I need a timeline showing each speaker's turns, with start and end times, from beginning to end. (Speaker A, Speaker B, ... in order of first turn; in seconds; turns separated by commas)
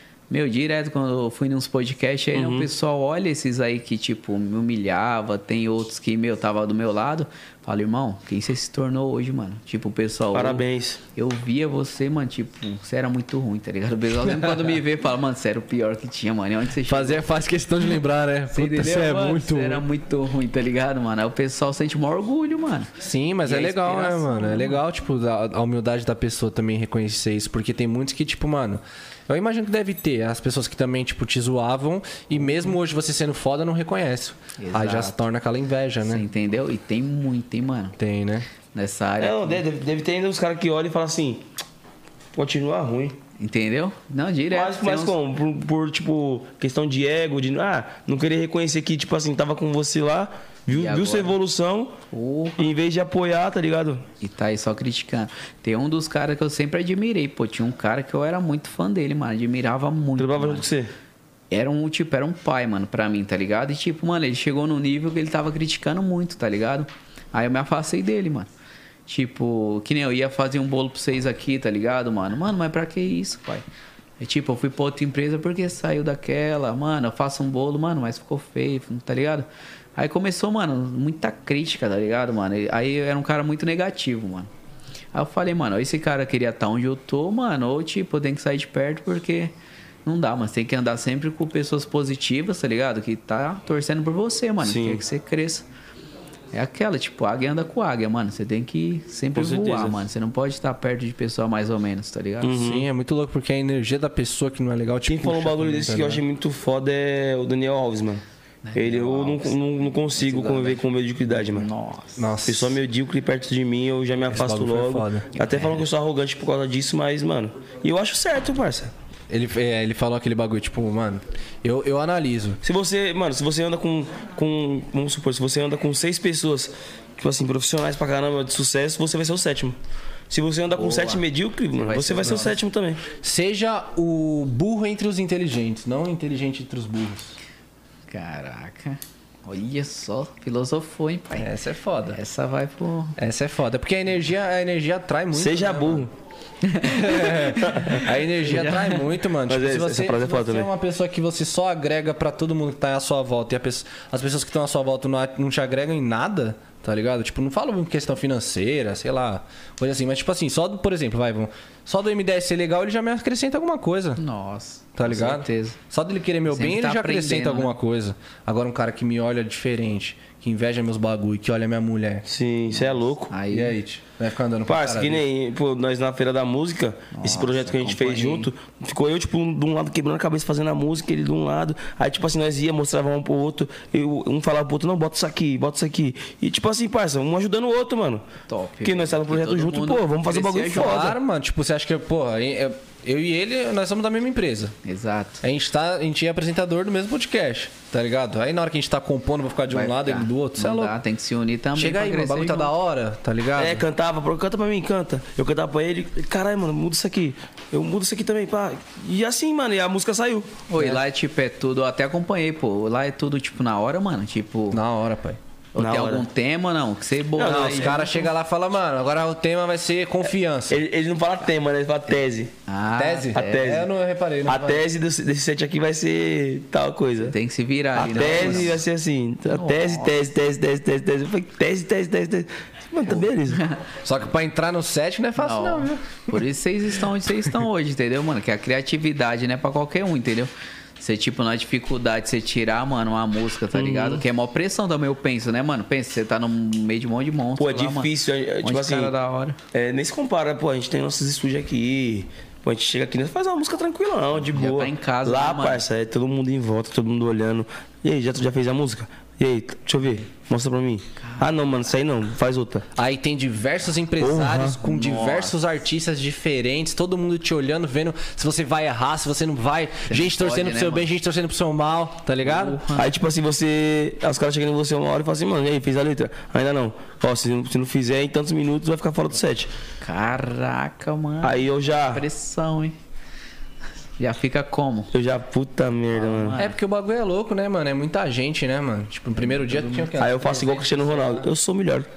Speaker A: 0.3-10.6, Speaker B: 2.3-2.7, Speaker B: 10.3-11.0, Speaker A: 11.2-17.2, Speaker C: 14.3-14.6, Speaker C: 16.9-19.8, Speaker A: 18.5-22.9, Speaker C: 23.0-36.2, Speaker A: 23.4-24.8, Speaker A: 34.6-35.2, Speaker A: 36.1-38.0, Speaker C: 38.0-38.5, Speaker A: 38.7-39.6, Speaker B: 39.2-41.5, Speaker B: 42.4-43.2, Speaker A: 43.4-45.2, Speaker B: 44.5-52.0, Speaker A: 50.7-51.4, Speaker A: 52.1-52.6, Speaker B: 52.6-54.0, Speaker A: 54.2-60.7, Speaker B: 60.2-60.9, Speaker A: 61.5-68.5, Speaker A: 69.1-73.6, Speaker A: 74.2-84.5, Speaker A: 85.1-89.5, Speaker A: 90.0-95.7, Speaker B: 94.6-95.0, Speaker A: 96.5-102.6, Speaker B: 99.3-100.0, Speaker B: 102.4-102.9, Speaker C: 102.5-106.2, Speaker B: 105.1-108.2, Speaker A: 108.6-112.3, Speaker B: 108.8-111.7, Speaker C: 112.2-112.8, Speaker B: 112.5-118.9, Speaker C: 114.3-115.3, Speaker A: 115.4-115.8, Speaker C: 119.3-122.6, Speaker B: 122.6-129.8, Speaker B: 130.3-133.0, Speaker A: 130.8-132.6, Speaker C: 133.2-137.4, Speaker A: 138.1-141.5, Speaker C: 141.4-142.2, Speaker A: 142.1-143.2, Speaker C: 143.2-146.1, Speaker B: 145.3-146.1, Speaker A: 146.6-149.1, Speaker C: 146.8-164.2, Speaker B: 147.6-148.0, Speaker B: 149.5-150.7, Speaker A: 164.2-165.8, Speaker C: 165.0-172.3, Speaker A: 166.5-167.7, Speaker B: 172.3-173.3, Speaker A: 172.8-173.8, Speaker C: 173.5-175.2, Speaker B: 174.7-188.3, Speaker A: 177.1-178.5, Speaker A: 188.5-191.2, Speaker B: 188.8-191.2, Speaker C: 190.7-194.7, Speaker A: 194.8-195.4, Speaker C: 195.4-201.0, Speaker A: 199.7-202.7, Speaker C: 201.8-203.8, Speaker B: 203.6-210.6, Speaker A: 210.7-214.8, Speaker C: 210.8-211.0, Speaker C: 214.7-215.4, Speaker A: 215.7-218.3, Speaker B: 215.8-216.3, Speaker B: 217.4-218.0, Speaker C: 217.4-220.8, Speaker B: 220.7-222.5, Speaker A: 222.7-223.8, Speaker C: 223.0-224.8, Speaker B: 223.3-223.9, Speaker B: 224.5-227.3, Speaker A: 227.2-228.8, Speaker C: 228.0-228.8, Speaker B: 228.0-233.6, Speaker A: 229.5-230.2, Speaker A: 233.2-233.8, Speaker C: 234.0-236.4, Speaker A: 235.4-248.1, Speaker B: 243.7-244.2, Speaker B: 247.6-249.1, Speaker A: 248.6-249.6, Speaker B: 249.7-262.9, Speaker A: 254.4-255.8, Speaker A: 261.2-261.5, Speaker C: 262.9-272.8, Speaker B: 264.2-264.8, Speaker A: 264.8-265.7, Speaker A: 270.1-271.1, Speaker A: 272.4-273.1, Speaker B: 272.9-279.7, Speaker A: 280.0-282.9, Speaker B: 281.4-282.3, Speaker A: 284.2-285.1, Speaker B: 285.1-286.6, Speaker A: 286.1-286.8, Speaker C: 286.6-291.4, Speaker A: 289.4-290.2, Speaker B: 290.2-292.1